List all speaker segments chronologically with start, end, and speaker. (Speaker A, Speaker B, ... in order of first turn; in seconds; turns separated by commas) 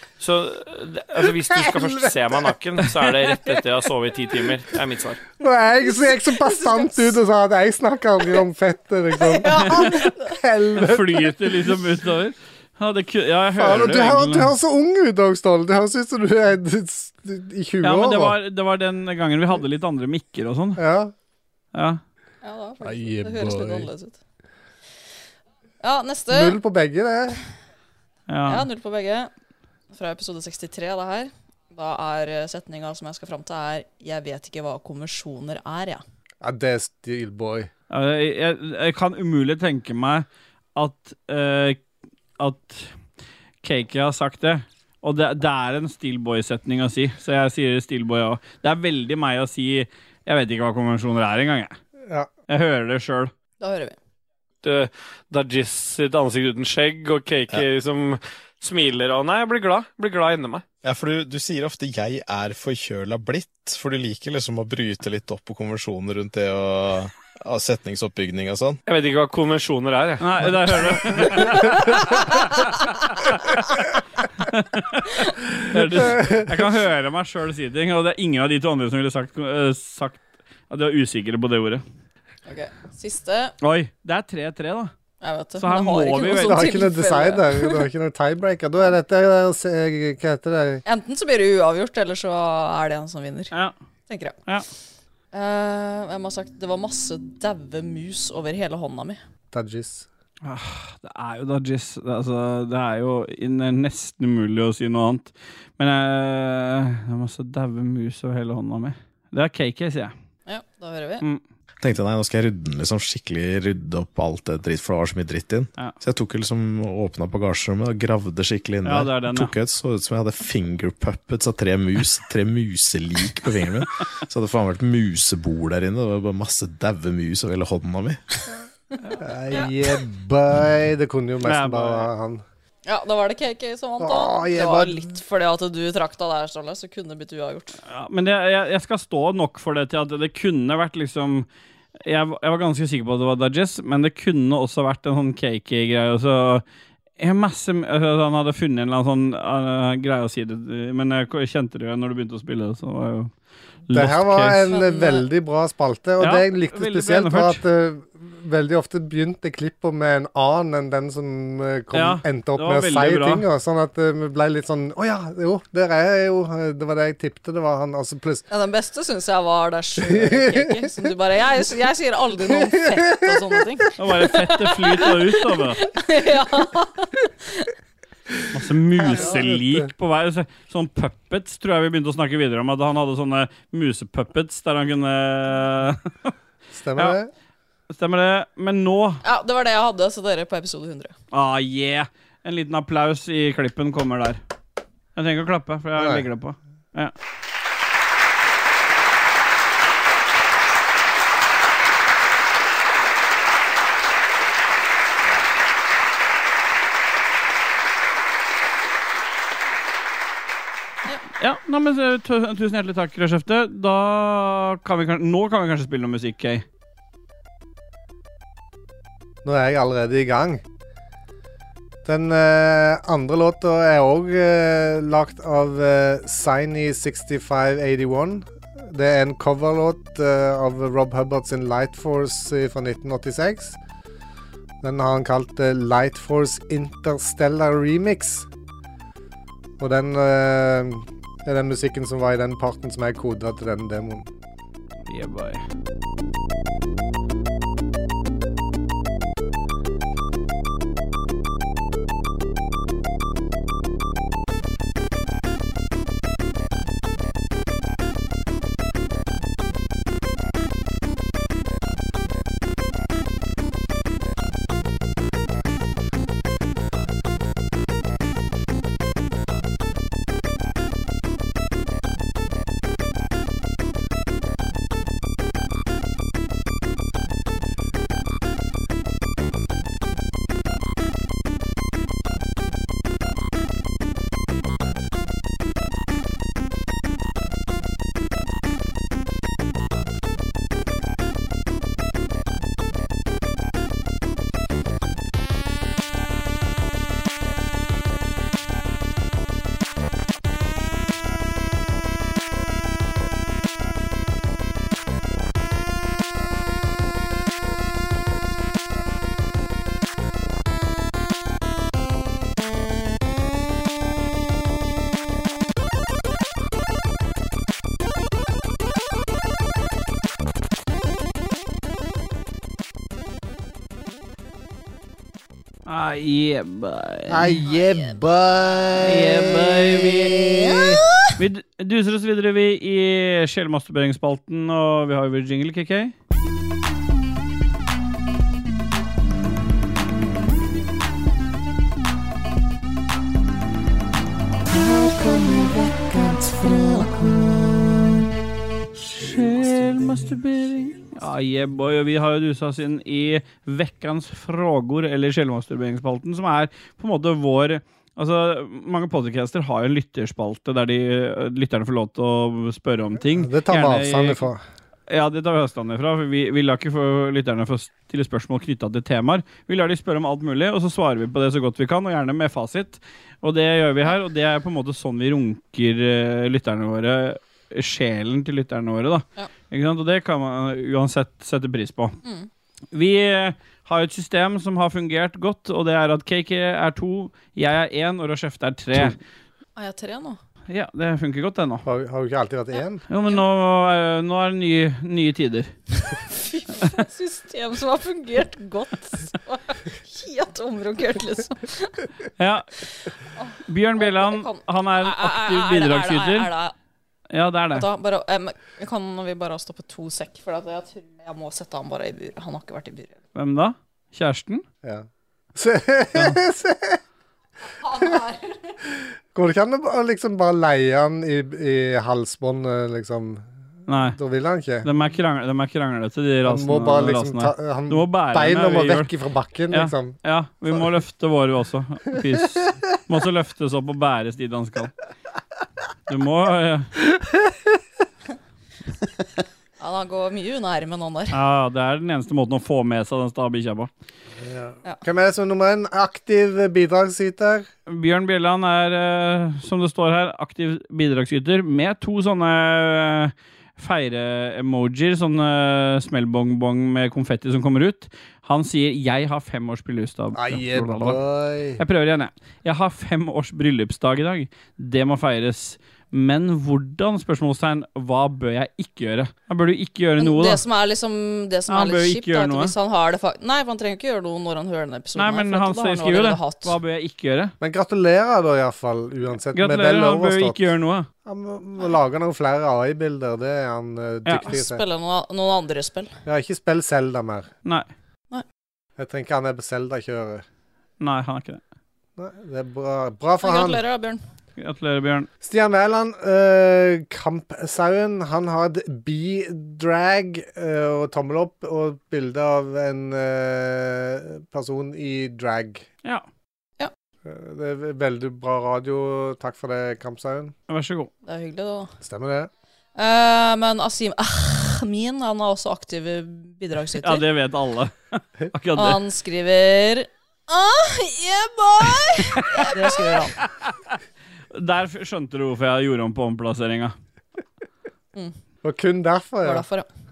Speaker A: 0.2-0.4, Speaker B: 0.6-1.9, Speaker A: 1.1-5.2, Speaker C: 1.3-2.5, Speaker B: 3.0-3.6, Speaker B: 4.2-4.6, Speaker C: 5.4-11.6, Speaker D: 6.2-7.1, Speaker D: 9.2-10.3, Speaker B: 9.5-10.1, Speaker B: 10.8-14.5, Speaker C: 13.5-18.4, Speaker B: 17.8-20.8, Speaker C: 20.8-21.1, Speaker B: 21.7-22.0, Speaker D: 22.4-24.2, Speaker C: 22.8-23.9, Speaker D: 25.8-26.6, Speaker C: 26.3-27.4, Speaker B: 28.3-28.6, Speaker D: 28.4-29.3, Speaker D: 29.9-36.0, Speaker C: 36.4-37.7, Speaker B: 37.9-41.8, Speaker B: 42.4-42.9, Speaker B: 43.6-51.8, Speaker B: 52.5-53.3, Speaker D: 53.6-54.0, Speaker A: 54.6-60.6, Speaker E: 60.8-68.8, Speaker A: 68.8-71.1, Speaker B: 70.2-73.7, Speaker B: 74.4-81.8, Speaker C: 76.1-76.5, Speaker D: 82.5-83.5, Speaker B: 83.6-84.9, Speaker D: 85.2-87.9, Speaker B: 85.6-86.7, Speaker C: 86.3-90.8, Speaker D: 90.8-93.5, Speaker D: 94.1-94.3, Speaker D: 95.3-99.2, Speaker C: 99.5-100.1, Speaker B: 100.4-110.1, Speaker D: 110.5-111.2, Speaker E: 111.8-128.2, Speaker B: 118.8-119.5, Speaker C: 129.2-132.4, Speaker B: 131.4-132.1, Speaker D: 132.8-137.8, Speaker C: 134.0-135.1, Speaker B: 137.8-141.5, Speaker B: 142.0-146.6, Speaker B: 147.2-153.3, Speaker B: 153.9-154.7, Speaker C: 153.9-168.4, Speaker D: 154.7-155.2, Speaker B: 156.2-157.6, Speaker B: 161.9-163.4, Speaker D: 168.5-177.7, Speaker C: 170.0-171.0, Speaker C: 172.5-173.4, Speaker B: 174.0-175.8, Speaker B: 178.5-186.3, Speaker D: 179.0-179.4, Speaker C: 179.1-179.9, Speaker C: 186.7-187.3, Speaker B: 187.9-189.2, Speaker D: 189.2-191.1, Speaker B: 191.3-194.4, Speaker B: 195.1-197.1, Speaker C: 195.9-196.3, Speaker B: 211.4-216.6, Speaker C: 219.4-220.6, Speaker C: 222.0-233.8, Speaker C: 234.8-238.5, Speaker C: 239.8-244.3, Speaker B: 245.1-245.6, Speaker B: 325.9-327.6, Speaker C: 327.3-331.0, Speaker D: 327.7-328.2, Speaker B: 329.0-330.4, Speaker D: 330.4-330.9, Speaker B: 331.4-336.1, Speaker B: 349.2-364.4, Speaker C: 363.2-364.6, Speaker B: 365.1-382.2, Speaker D: 382.2-382.5, Speaker B: 382.9-389.1, Speaker D: 389.8-390.4, Speaker B: 390.7-391.8, Speaker C: 391.8-393.0, Speaker D: 392.7-393.4, Speaker B: 393.1-395.7, Speaker D: 396.0-402.1, Speaker B: 402.4-402.7, Speaker D: 403.3-406.7, Speaker B: 403.7-406.5, Speaker B: 407.3-407.8, Speaker D: 407.7-413.2, Speaker B: 413.3-414.6, Speaker C: 414.8-417.0, Speaker D: 417.8-418.7, Speaker C: 419.3-424.9, Speaker B: 423.9-424.2, Speaker B: 424.8-429.1, Speaker C: 426.4-430.2, Speaker B: 429.7-434.9, Speaker B: 436.1-436.9, Speaker D: 439.8-441.4, Speaker B: 441.3-443.9, Speaker C: 444.4-447.7, Speaker B: 447.9-461.2, Speaker C: 460.3-461.8, Speaker B: 461.8-470.6, Speaker D: 470.2-476.8, Speaker B: 471.7-472.7, Speaker B: 475.1-477.5, Speaker C: 477.6-480.6, Speaker B: 479.5-481.1, Speaker C: 481.2-484.8, Speaker B: 484.2-484.5, Speaker D: 484.4-486.1, Speaker C: 486.2-487.5, Speaker C: 489.0-490.4, Speaker B: 491.0-491.6, Speaker C: 492.2-493.8, Speaker D: 493.4-494.2, Speaker B: 494.6-495.3, Speaker C: 495.4-505.9, Speaker C: 507.2-510.5, Speaker B: 510.7-511.1, Speaker D: 511.2-511.9, Speaker C: 512.0-512.5, Speaker D: 513.0-517.2, Speaker B: 517.0-519.0, Speaker D: 518.8-523.4, Speaker B: 522.3-523.9, Speaker B: 524.5-526.9, Speaker C: 528.6-529.6, Speaker D: 529.4-529.9